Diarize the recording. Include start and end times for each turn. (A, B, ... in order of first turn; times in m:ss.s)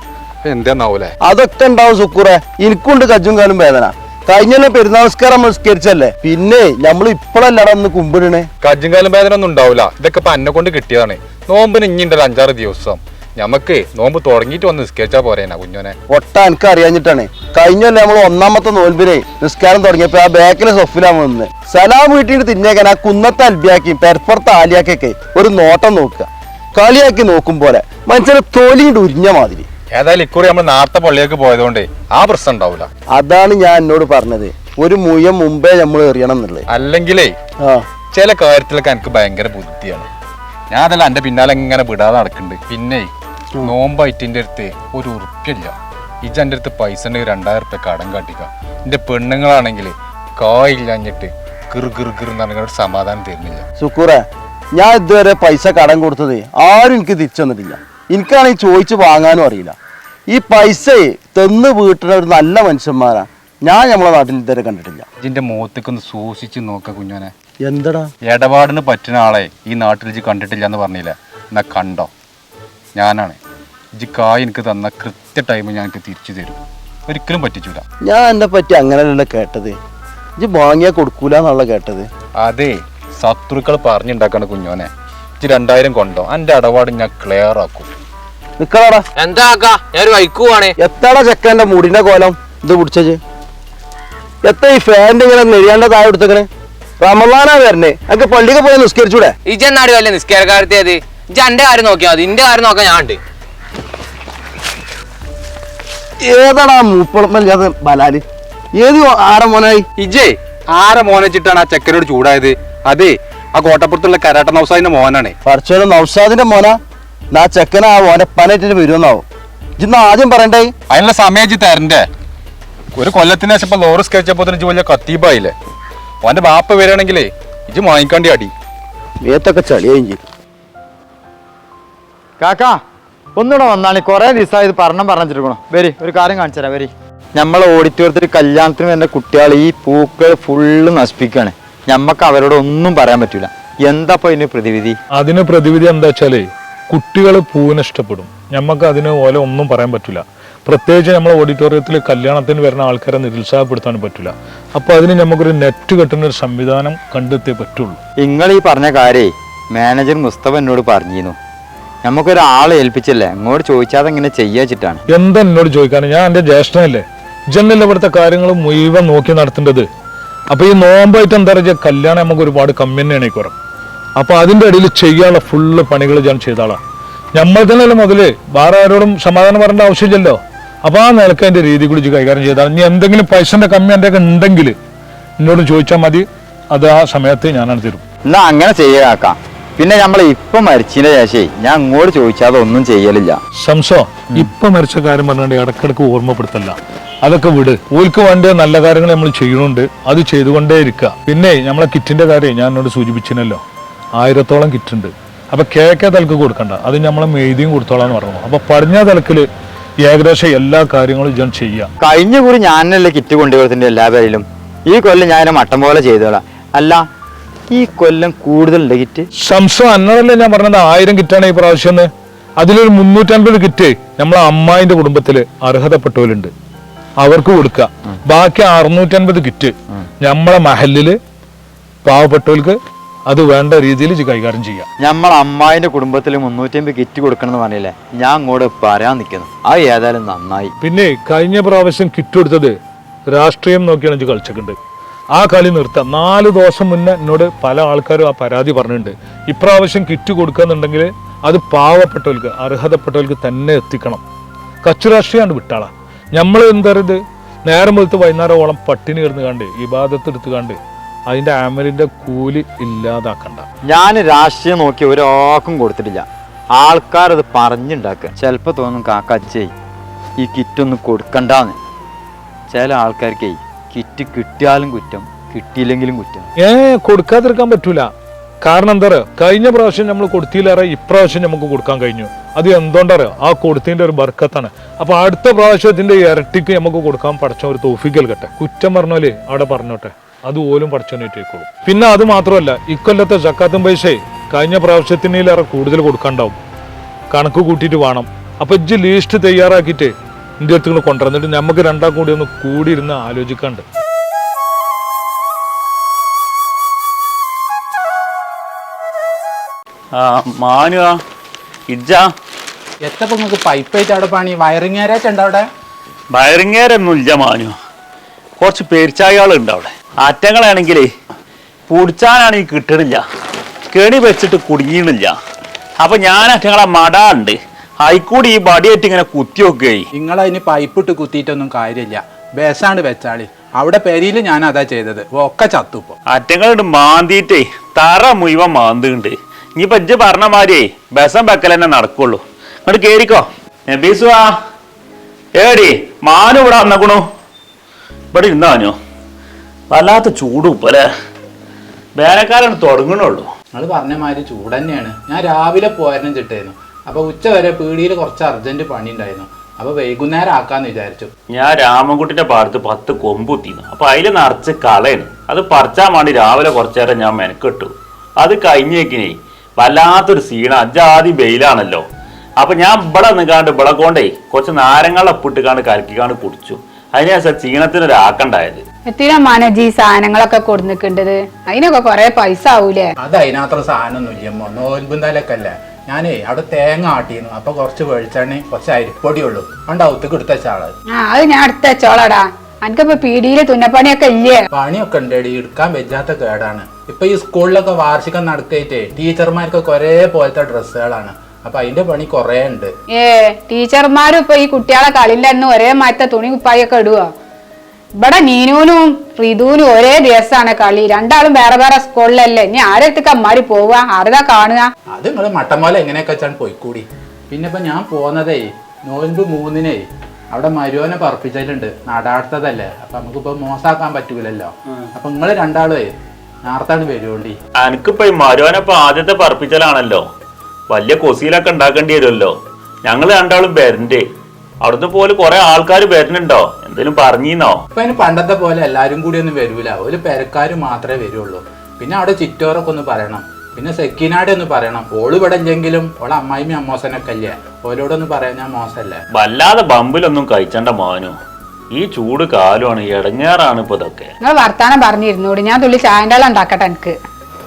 0:00.4-0:01.2 A
0:01.2-0:08.5 B
0:08.6-0:16.0 A
0:16.1-0:29.7 B
0:29.9-0:32.9 A
0:33.1-0:36.6 B
0:36.7-0:37.4 A
0:38.1-0:40.0 A
0:40.7-0:53.6 A
0:53.8-0:54.2 B
0:54.7-0:59.8 B
1:00.3-1:05.0 B
1:05.2-1:07.3 A
1:07.6-1:08.1 B
1:08.2-1:12.1 A
1:13.0-1:13.4 A
1:14.0-1:17.8 A
1:18.1-1:19.7 B
1:20.4-1:22.1 B
1:22.4-1:27.9 A
1:28.6-1:29.0 B
1:29.2-1:30.7 C
1:30.8-1:33.2 B
1:34.4-1:36.5 B
1:37.0-1:39.3 B
1:39.5-1:43.2 C
1:46.2-1:48.2 B
1:48.7-1:49.8 B
1:50.0-1:55.4 A
1:55.4-1:56.8 B
1:57.3-1:59.2 B
1:59.8-2:00.7 B
2:00.9-2:02.1 A
2:03.0-2:05.5 A
2:06.2-2:08.5 A
2:09.3-2:10.2 B
2:12.4-2:12.8 D
2:13.4-2:25.0 D
2:25.2-2:38.0 E
2:38.2-2:41.4 D
2:42.0-2:45.0 D
2:45.1-2:49.9 E
2:50.5-2:53.5 E
2:54.2-2:56.8 E
2:57.3-3:04.8 E
3:05.4-3:08.0 E
3:08.3-3:13.4 D
3:13.6-3:23.6 E
3:24.2-3:29.5 E
3:30.0-3:31.9 E
3:32.0-3:37.0 D
3:37.7-3:39.3 D
3:39.4-3:46.5 E
3:47.2-3:51.2 E
3:52.0-3:52.8 E
3:53.3-3:54.9 E
3:55.0-4:00.7 D
4:00.8-4:02.8 E
4:03.3-4:04.8 E
4:05.3-4:14.2 E
4:14.8-4:23.6 E
4:23.8-4:29.7 D
4:30.4-4:31.8 D
4:32.7-4:36.5 D
4:36.6-4:38.1 E
4:38.6-4:56.6 E
4:57.3-5:03.8 E
5:10.2-5:11.1 F
5:11.9-5:12.3 F
5:13.0-5:15.7 G
5:16.3-5:17.7 F
5:18.6-5:21.1 F
5:21.9-5:23.2 F
5:23.9-5:25.3 F
5:26.0-5:30.0 F
5:30.2-5:36.1 G
5:36.3-5:44.5 F
5:45.6-5:47.2 F
5:48.3-5:48.9 F
5:49.9-5:51.0 F
5:52.2-5:53.5 F
5:53.7-6:01.3 G
6:01.5-6:12.0 F
6:12.6-6:18.8 F
6:19.1-6:23.1 H
6:23.2-6:30.9 G
6:31.1-6:34.6 H
6:34.7-6:42.9 G
6:43.1-6:47.3 H
6:48.2-6:54.9 H
6:55.1-7:06.1 G
7:06.6-7:07.6 G
7:07.8-7:10.2 F
7:10.9-7:12.5 F
7:13.0-7:14.2 F
7:14.8-7:17.8 F
7:18.0-7:29.2 G
7:29.3-7:31.3 F
7:31.9-7:34.3 F
7:34.4-7:37.2 H